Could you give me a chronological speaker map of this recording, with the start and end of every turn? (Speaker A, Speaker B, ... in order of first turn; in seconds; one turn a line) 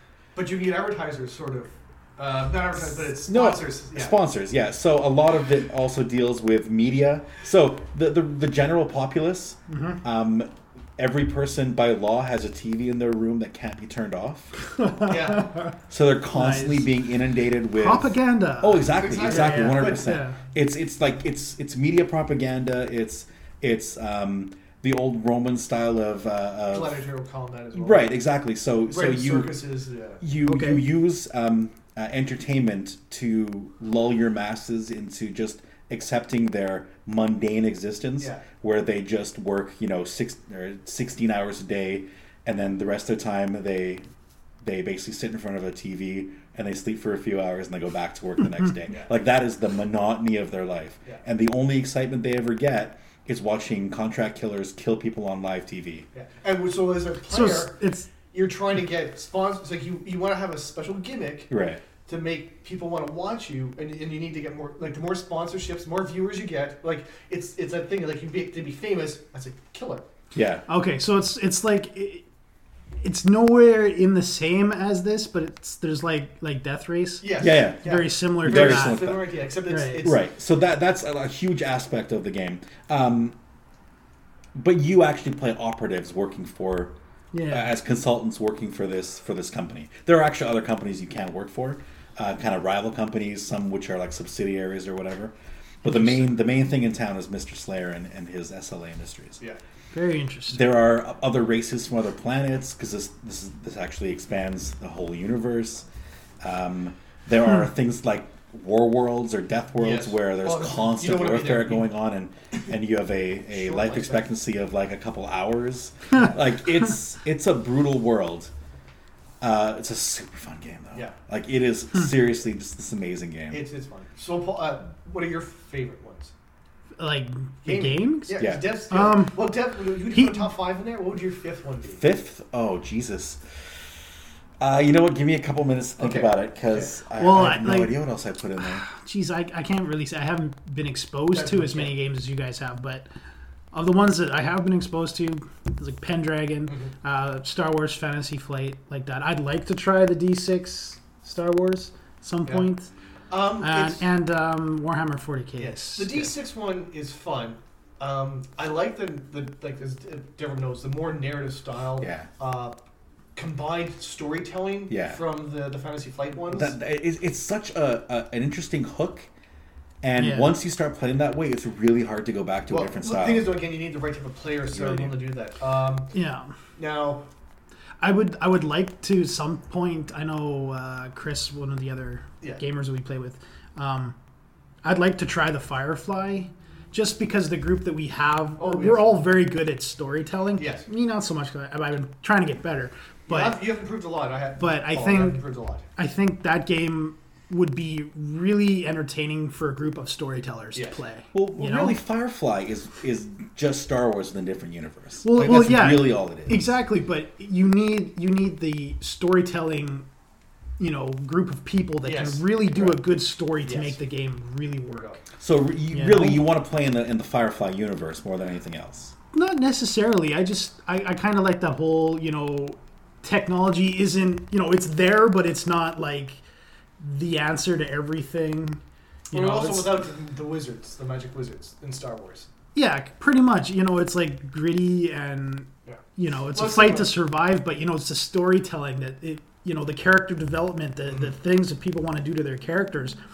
Speaker A: 0.3-4.2
Speaker B: 3.1-14.5
Speaker C: 9.7-10.0
Speaker C: 14.8-15.7
Speaker A: 15.1-15.5
Speaker B: 15.9-27.0
Speaker C: 16.3-16.9
Speaker C: 17.8-20.4
Speaker A: 18.9-20.2
Speaker A: 26.7-28.2
Speaker B: 27.7-29.6
Speaker A: 28.9-30.2
Speaker B: 30.2-44.0
Speaker C: 30.4-30.8
Speaker A: 38.2-38.4
Speaker B: 44.6-56.0
Speaker A: 48.9-49.1
Speaker A: 56.1-57.8
Speaker C: 57.3-58.1
Speaker A: 58.3-61.5
Speaker B: 61.5-61.8
Speaker A: 62.1-70.0
Speaker B: 70.3-70.6
Speaker C: 70.7-72.2
Speaker C: 73.0-79.0
Speaker A: 77.2-80.2
Speaker B: 77.4-79.2
Speaker C: 79.7-80.0
Speaker B: 80.0-83.3
Speaker B: 84.5-86.9
Speaker C: 87.3-87.7
Speaker B: 87.5-99.4
Speaker C: 95.8-96.2
Speaker C: 99.9-100.7
Speaker B: 100.5-105.8
Speaker B: 106.4-118.5
Speaker A: 109.8-111.9
Speaker A: 113.5-114.2
Speaker B: 119.4-123.6
Speaker A: 123.5-126.3
Speaker C: 127.0-129.4
Speaker A: 127.6-132.0
Speaker B: 128.4-128.7
Speaker C: 130.1-130.5
Speaker B: 131.9-133.4
Speaker B: 134.6-138.8
Speaker A: 136.0-136.9
Speaker C: 137.2-137.9
Speaker C: 138.8-143.1
Speaker A: 141.3-141.9
Speaker C: 143.7-152.9
Speaker A: 146.7-146.9
Speaker A: 153.3-154.1
Speaker C: 153.6-156.3
Speaker A: 155.6-162.8
Speaker B: 162.0-162.3
Speaker A: 163.3-166.7
Speaker B: 164.9-165.2
Speaker B: 166.5-169.3
Speaker B: 170.0-173.5
Speaker C: 170.2-170.6
Speaker A: 172.7-176.1
Speaker B: 174.7-175.2
Speaker C: 176.1-176.5
Speaker A: 176.8-177.2
Speaker C: 178.0-184.1
Speaker C: 184.8-193.6
Speaker A: 188.6-189.1
Speaker A: 190.5-190.9
Speaker A: 193.3-195.8
Speaker C: 194.6-195.4
Speaker C: 196.0-202.0
Speaker B: 201.3-206.7
Speaker C: 205.2-210.1
Speaker C: 210.8-215.1
Speaker A: 212.0-212.9
Speaker A: 213.6-214.0
Speaker A: 214.9-215.2
Speaker B: 215.4-219.1
Speaker C: 215.9-216.5
Speaker C: 219.3-226.4
Speaker C: 227.0-228.8
Speaker C: 229.3-229.9
Speaker A: 229.3-232.5
Speaker C: 232.7-243.2
Speaker A: 235.8-237.1